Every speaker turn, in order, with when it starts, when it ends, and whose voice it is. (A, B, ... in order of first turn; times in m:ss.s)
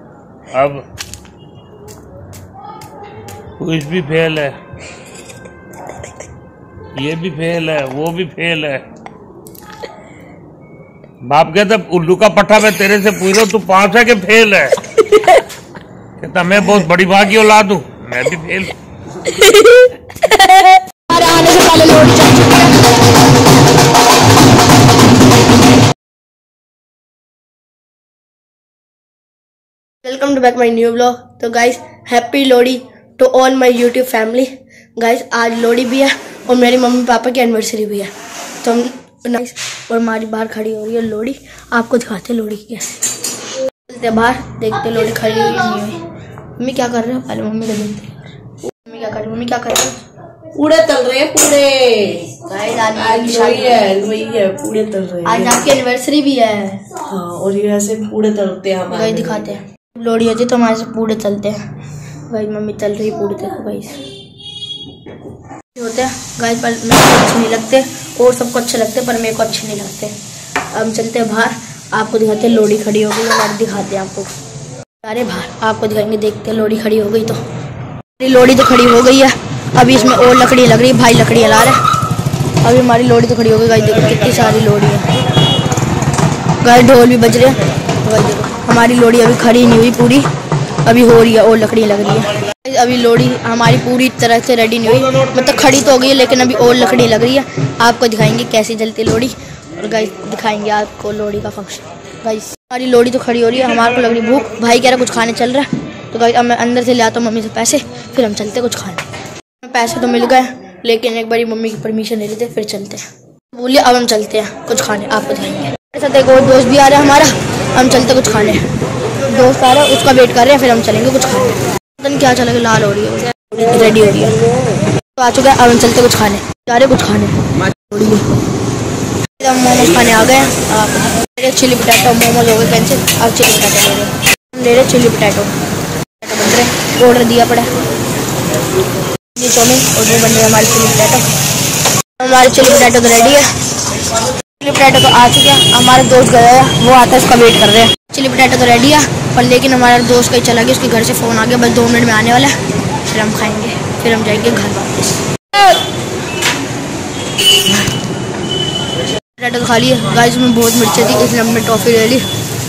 0:00.5-0:00.8 A
0:03.6-0:04.5 A
0:07.0-0:08.8 A
0:11.3-0:14.8 A
0:15.0-0:15.4 B
0:16.2-0:18.7 A
0:19.2-0:22.9 B
0:30.0-0:38.1 B
0:38.6-0:43.0 B
0:43.9-0:46.0 B
0:46.6-0:48.3 B
0:48.8-0:49.9 B
0:50.5-0:55.6 C
0:52.4-0:53.8 B
0:55.2-0:57.0 B
0:56.9-0:59.5 C
0:58.9-1:01.6 B
1:02.3-1:04.0 B
1:05.7-1:10.1 B
1:10.7-1:14.3 B
1:15.0-1:17.4 B
1:18.2-1:21.8 B
1:22.6-1:25.1 B
1:26.6-1:30.2 B
1:30.8-1:49.1 B
1:49.6-1:53.0 B
1:53.5-1:58.6 B
1:59.2-2:04.4 B
2:05.2-2:08.3 B
2:09.4-2:15.5 B
2:16.2-2:17.7 B
2:19.4-2:21.2 B
2:22.2-2:23.5 B
2:24.6-2:32.5 B
2:33.1-2:35.8 B
2:37.6-2:37.8 B
2:39.4-2:42.2 B